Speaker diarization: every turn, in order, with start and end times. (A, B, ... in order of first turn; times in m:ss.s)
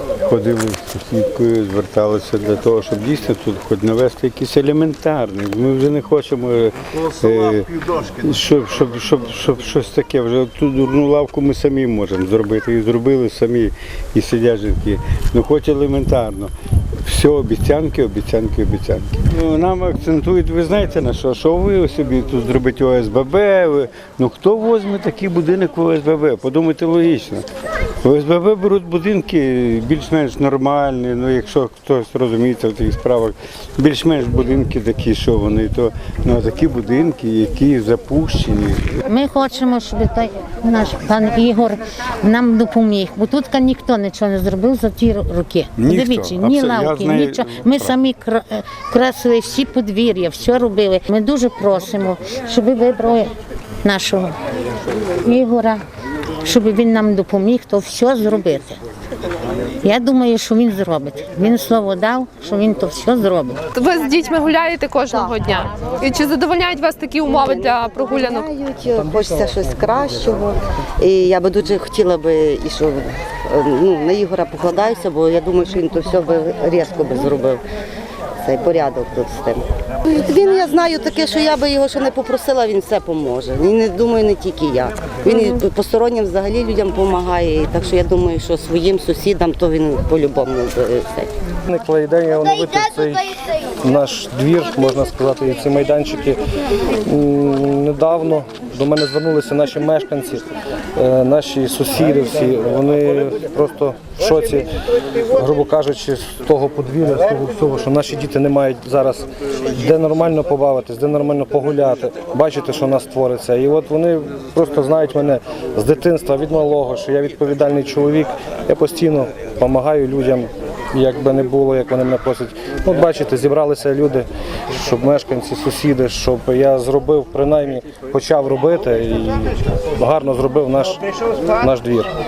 0:00.2-0:16.5 A
0:17.0-0:27.5 A
0:28.0-0:39.0 A
0:39.1-0:53.3 B
0:45.8-0:48.0 A
0:53.8-0:54.3 B
0:55.1-0:55.8 B
0:56.4-0:58.8 B
0:59.8-1:03.6 B
1:03.7-1:08.5 C
1:07.2-1:17.6 D
1:18.4-1:31.3 D
1:31.7-1:36.4 E
1:36.9-1:40.4 E
1:41.0-1:44.7 E
1:45.3-2:11.0 E
2:11.6-2:12.1 E